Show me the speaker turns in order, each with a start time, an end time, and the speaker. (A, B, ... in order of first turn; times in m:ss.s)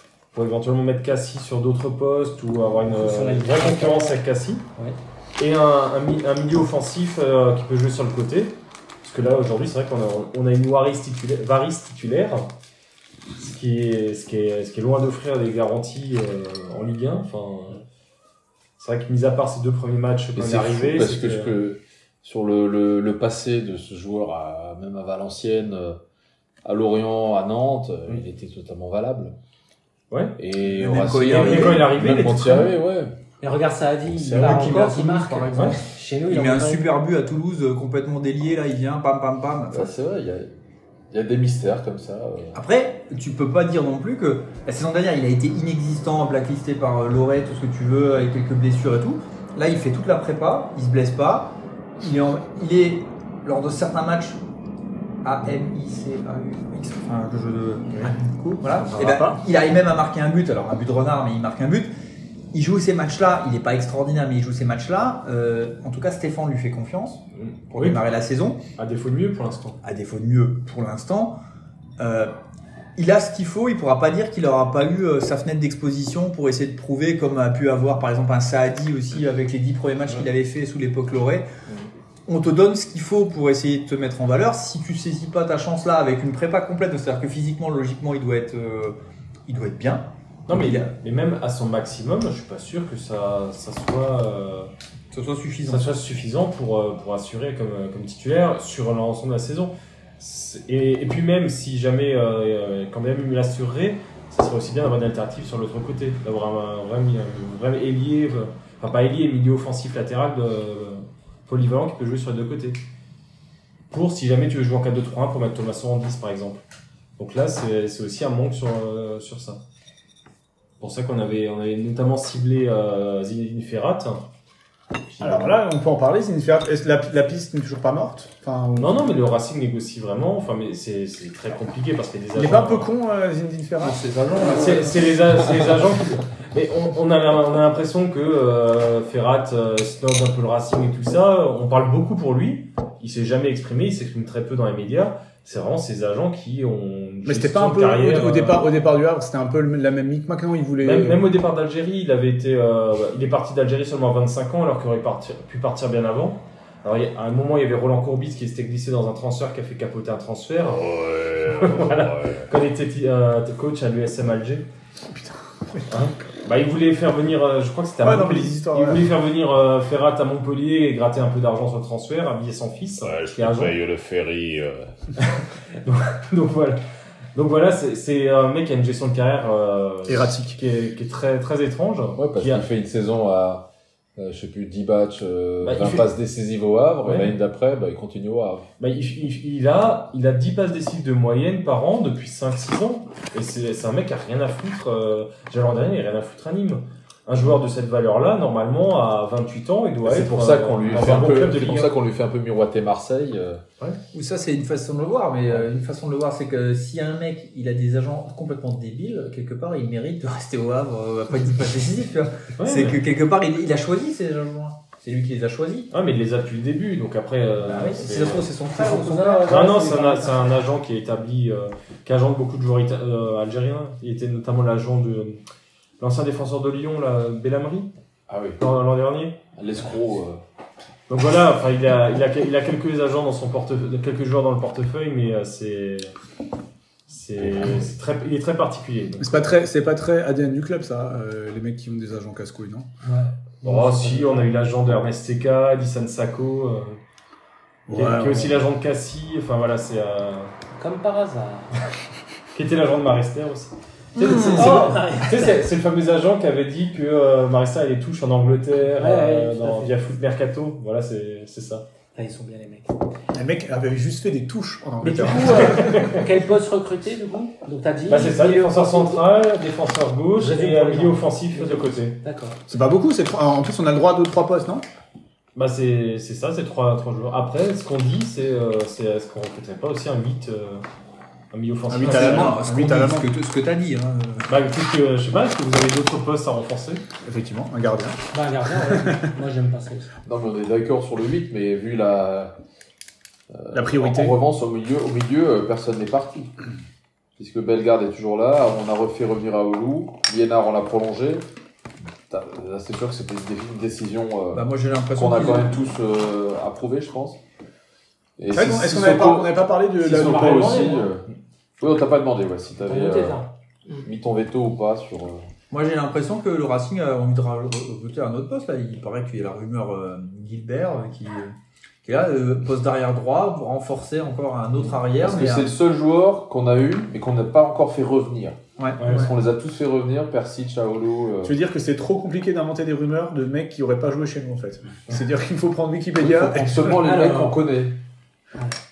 0:00.3-0:04.7 A
0:02.9-0:04.2 B
0:05.4-0:12.5 A
0:13.4-0:17.8 A
0:18.8-0:21.5 A
0:20.3-0:26.0 C
0:26.6-0:29.4 C
0:30.1-0:30.4 A
0:30.4-0:33.1 C
0:30.6-0:31.9 D
0:31.2-0:32.7 A
0:33.4-0:36.8 B
0:34.2-0:34.6 C
0:34.4-0:39.9 D
0:39.7-0:40.5 C
0:41.1-0:42.6 C
0:42.5-0:54.4 D
0:55.2-1:01.9 D
0:58.7-0:59.4 E
1:02.5-1:08.6 D
1:07.3-1:08.0 A
1:08.8-1:09.8 A
1:09.8-1:11.4 D
1:12.0-1:12.3 D
1:13.0-1:21.5 D
1:22.2-1:30.9 D
1:30.5-1:34.7 A
1:35.1-1:35.9 D
1:35.7-1:52.8 A
1:53.9-1:56.6 A
1:57.2-1:59.6 A
2:00.8-2:04.2 A
2:05.1-2:05.6 A
2:05.2-2:09.0 E
2:08.7-2:12.9 A
2:12.3-2:14.0 E
2:13.8-2:15.7 D
2:14.4-2:28.7 A
2:27.2-2:31.2 E
2:30.8-2:40.9 A
2:40.7-2:42.5 C
2:41.5-2:44.7 A
2:45.1-2:45.8 E
2:45.9-2:53.8 A
2:48.0-2:49.1 E
2:53.0-2:54.9 C
2:55.2-2:56.8 A
2:57.3-3:02.6 A
3:00.0-3:00.6 E
3:02.2-3:08.7 C
3:05.6-3:06.1 A
3:07.0-3:07.3 A
3:08.8-3:21.9 A
3:20.0-3:23.6 C
3:24.1-3:35.9 D
3:32.6-3:33.0 A
3:35.9-3:38.5 A
3:37.6-3:39.6 D
3:38.7-3:40.4 B
3:39.5-3:45.4 A
3:46.0-3:47.9 A
3:48.3-3:48.6 C
3:48.6-3:49.4 A
3:49.5-3:50.4 C
3:51.1-3:56.1 A
3:57.1-3:59.5 A
3:57.4-3:57.8 C
3:59.2-4:02.9 E
4:03.0-4:04.4 B
4:03.6-4:07.0 A
4:07.9-4:08.6 E
4:07.9-4:10.5 A
4:10.8-4:11.7 B
4:12.5-4:21.8 A
4:14.2-4:14.8 D
4:14.5-4:15.6 B
4:19.0-4:19.9 B
4:22.1-4:22.9 B
4:23.3-4:26.1 E
4:25.0-4:29.2 B
4:25.4-4:26.2 A
4:28.1-4:32.2 A
4:30.4-4:32.6 B
4:32.7-4:34.8 E
4:35.5-4:40.8 A
4:41.5-4:42.6 A
4:41.9-4:43.3 E
4:42.0-4:44.5 D
4:44.5-4:47.0 A
4:47.2-4:48.2 E
4:48.3-4:50.1 B
4:50.2-4:52.5 C
4:53.5-4:56.5 C
4:53.7-4:54.4 E
4:57.4-5:01.4 C
5:02.3-5:07.4 C
5:04.5-5:05.8 D
5:08.4-5:11.2 C
5:08.5-5:11.0 E
5:10.0-5:11.0 B
5:11.8-5:13.4 C
5:12.8-5:14.0 B
5:14.0-5:15.5 C
5:15.7-5:25.7 D
5:25.1-5:31.5 C
5:28.8-5:29.2 D
5:31.4-5:37.0 E
5:36.2-5:38.0 C
5:37.0-5:37.6 B